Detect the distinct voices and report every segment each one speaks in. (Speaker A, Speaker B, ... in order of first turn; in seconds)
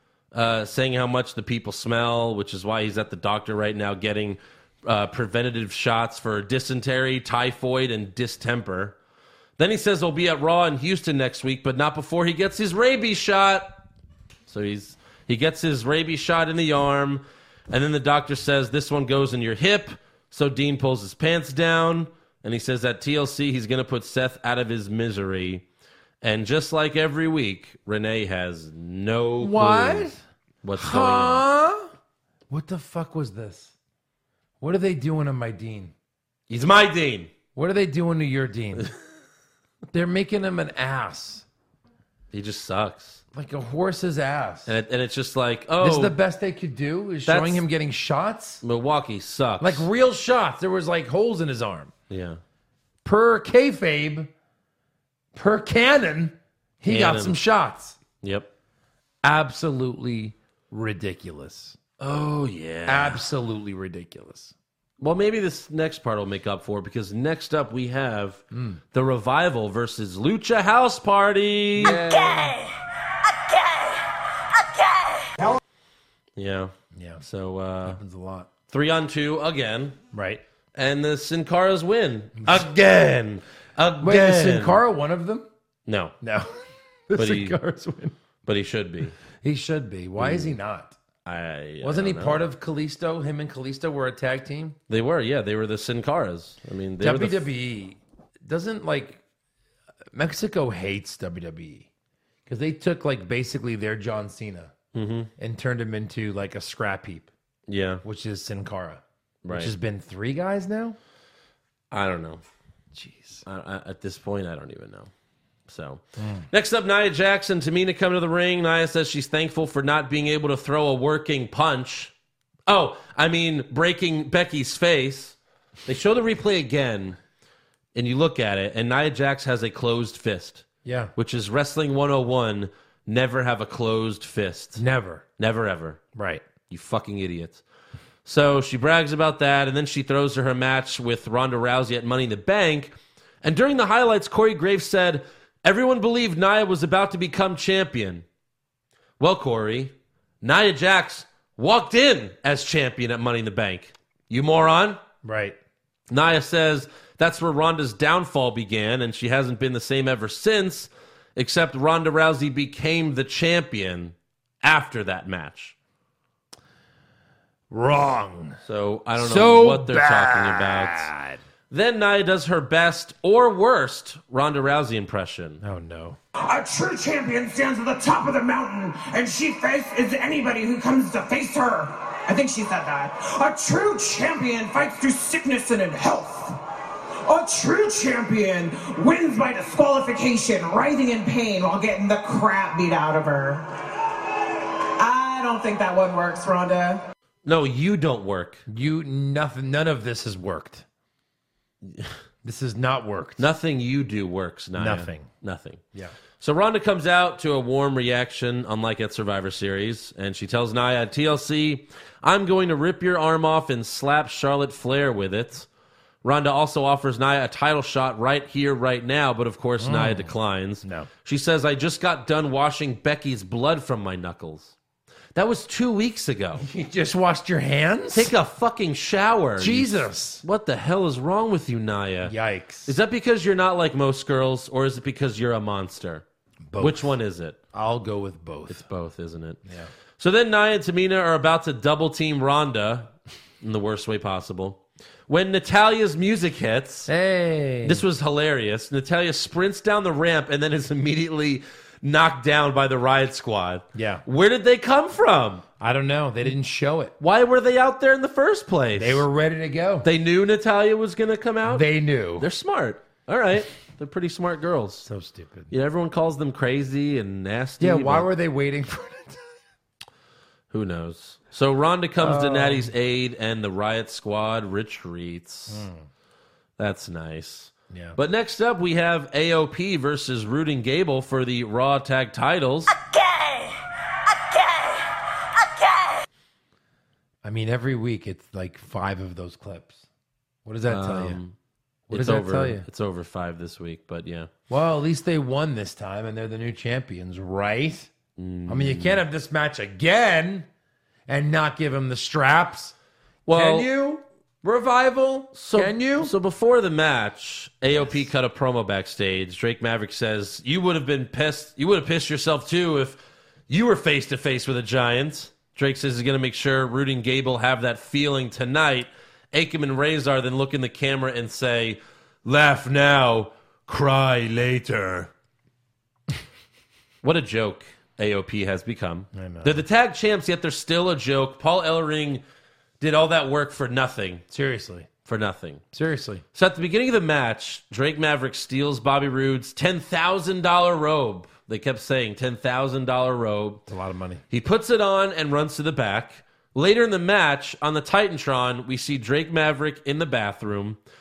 Speaker A: 0.3-9.0, 9.6-13.8, 14.5-25.6, 26.2-30.1, 30.6-31.4, 36.5-37.3, 42.3-43.2, 44.7-46.2, 47.3-47.6, 48.6-49.9, 52.1-52.4, 56.9-57.4, 58.2-58.5, 62.0-63.2, 65.0-72.0, 76.4-78.0, 78.7-80.0, 80.8-84.8, 85.9-86.2, 87.2-87.6, 88.4-89.2, 90.2-90.6, 91.2-92.5, 94.9-97.5, 104.9-105.3, 107.7-108.0, 109.4-109.7, 111.9-112.4, 113.5-115.1, 115.7-122.1, 122.7-127.2, 127.9-130.7, 131.2-134.8, 135.4-136.0, 136.7-137.6, 138.2-148.2, 149.2-155.0, 156.1-165.8, 168.6-171.1, 171.7-175.6, 197.4-198.6, 201.8-202.1, 203.4-205.8, 206.4-215.7, 216.2-224.8, 225.3-226.7, 228.1-232.3, 232.9-236.2, 236.8-237.6, 238.7-239.6, 240.2-243.1, 243.6-247.1, 247.8-255.6, 257.2-259.3, 260.0-265.1, 265.7-268.3, 270.7-275.9, 276.8-283.0, 290.9-291.6, 292.1-294.5, 298.4-299.2, 303.5-303.9, 305.5-325.3, 327.2-332.4, 333.0-334.4, 335.2-335.8, 336.5-343.9, 344.5-351.0
Speaker B: 29.4-30.2, 30.8-31.9, 32.5-33.7, 34.6-35.9, 37.5-38.9, 39.9-41.5, 43.3-44.8, 45.8-48.6, 49.6-51.9, 53.0-54.3, 55.4-58.0, 59.2-61.8, 62.9-64.5, 68.5-68.8, 71.8-72.7, 76.9-77.2, 77.8-78.5, 80.1-80.4, 84.0-85.5, 86.2-86.5, 87.1-88.2, 89.4-91.0, 91.8-94.8, 97.0-99.2, 100.1-101.9, 102.5-104.7, 105.4-107.3, 108.0-111.0, 113.0-113.4, 116.2-116.5, 130.8-131.1, 134.8-135.2, 136.2-136.4, 155.2-155.6, 167.7-168.6, 169.2-171.4, 175.6-176.2, 198.7-200.8, 202.4-203.5, 204.8-205.3, 219.8-221.1, 226.6-228.3, 229.6-230.4, 232.2-232.9, 236.7-237.1, 237.7-238.8, 247.1-248.0, 253.9-254.2, 255.8-257.1, 259.0-260.1, 261.7-262.5, 265.1-265.7, 267.8-269.5, 272.2-272.9, 275.7-276.1, 277.9-278.2, 287.4-290.1, 290.6-291.4, 292.1-292.9, 294.7-298.1, 298.7-300.7, 301.3-302.9, 303.5-306.3, 329.3-329.8, 334.5-335.1, 335.9-336.4, 343.9-344.4
Speaker C: 176.4-186.6, 187.2-193.7, 195.0-197.0